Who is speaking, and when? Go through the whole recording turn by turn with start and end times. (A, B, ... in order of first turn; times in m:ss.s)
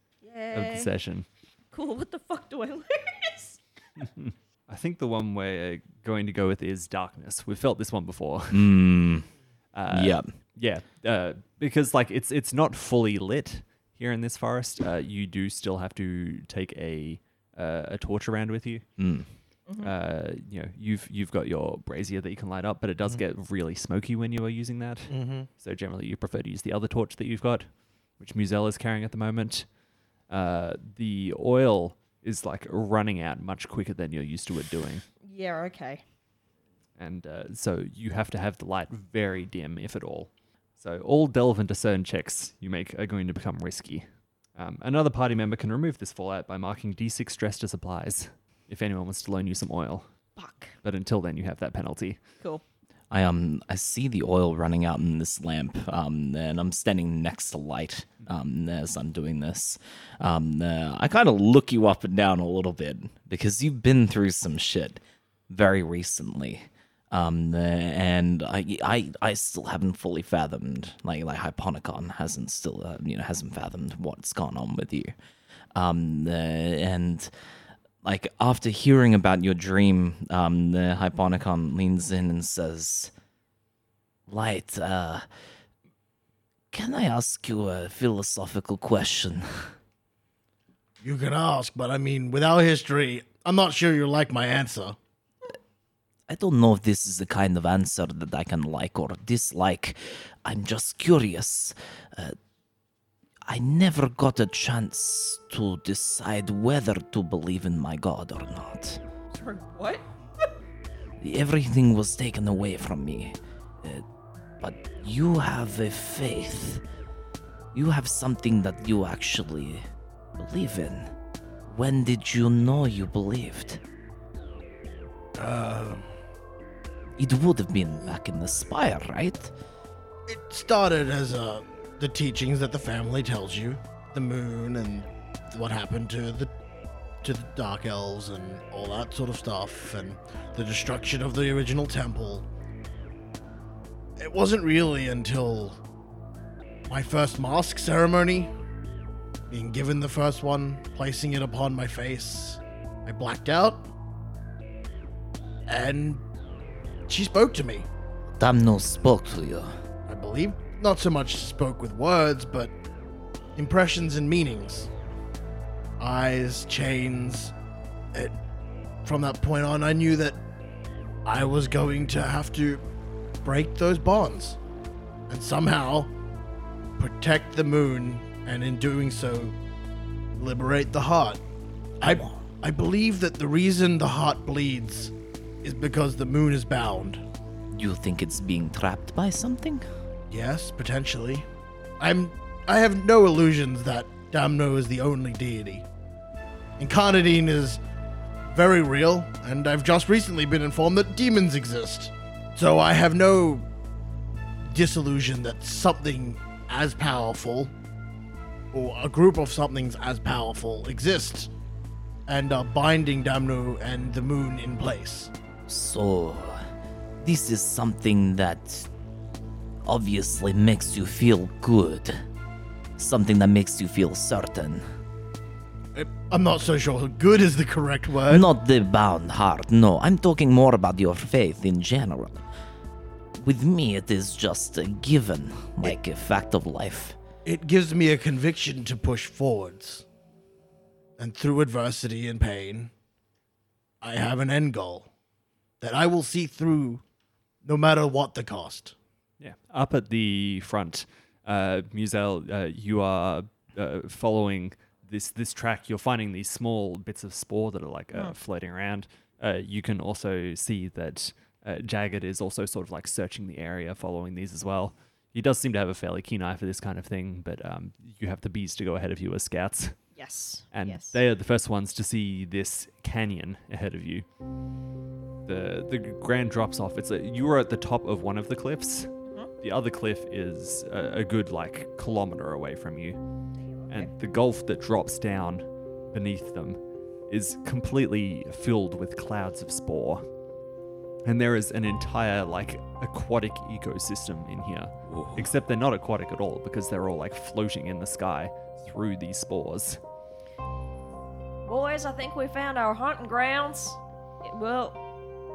0:00.2-0:00.9 A
0:00.5-0:01.3 B
0:01.7-0:03.6 A
0:04.0-0:08.7 B
0:08.5-0:09.3 C
0:09.7-0:18.8 B
0:09.9-0:10.3 C
0:19.0-0:19.3 C
0:19.7-0:19.9 A
0:19.8-0:29.7 B
0:25.1-0:25.5 D
0:30.3-0:35.0 B
0:35.2-0:36.0 A
0:37.0-0:44.0 B
0:44.6-0:50.1 B
0:50.4-0:50.7 A
0:50.8-0:52.2 B
0:53.1-1:15.1 C
1:15.7-1:17.3 C
1:18.0-1:23.1 C
1:24.3-1:25.2 C
1:26.7-1:29.7 C
1:31.0-1:35.0 D
1:36.3-1:42.4 C
1:43.5-1:49.0 C
1:49.3-1:50.0 A
1:51.2-1:54.0 C
1:54.6-1:56.8 C
1:57.7-1:59.8 C
2:00.4-2:01.1 C
2:01.7-2:03.8 C
2:05.4-2:06.1 D
2:07.2-2:09.5 C
2:10.3-2:16.5 D
2:17.2-2:22.4 D
2:24.2-2:25.8 D
2:26.9-2:28.5 D
2:29.5-2:33.9 D
2:35.7-2:36.2 D
2:37.1-2:37.9 D
2:38.4-2:39.7 C
2:40.1-2:42.7 D
2:43.6-2:44.9 D
2:46.0-2:47.5 D
2:49.0-2:50.4 D
2:51.2-2:52.8 D
2:53.4-2:54.6 D
2:55.3-2:56.1 D
2:57.0-2:59.5 D
3:00.3-3:01.4 D
3:02.0-3:07.2 D
3:02.0-3:02.4 C
3:07.7-3:09.8 C
3:10.3-3:11.5 D
3:12.0-3:15.8 D
3:16.8-3:17.8 D
3:18.5-3:23.6 D
3:24.7-3:27.7 D
3:28.7-3:31.5 D
3:32.3-3:35.3 D
3:35.7-3:36.7 C
3:37.2-3:38.9 C
3:39.8-3:42.2 C
3:43.0-3:44.8 C
3:45.9-3:48.5 D
3:48.3-3:52.4 C
3:53.4-3:57.2 C
3:57.4-4:00.0 D
4:01.2-4:02.9 D
4:04.0-4:05.1 D
4:05.8-4:07.0 D
4:07.6-4:08.9 D
4:09.4-4:30.0 B
4:30.2-4:31.2 A
4:30.7-4:34.2 B
4:35.4-4:43.2 B
4:43.6-4:44.1 A
4:43.9-4:50.2 B
4:51.2-5:00.0 B
4:55.1-4:55.5 C
5:01.6-5:05.0 A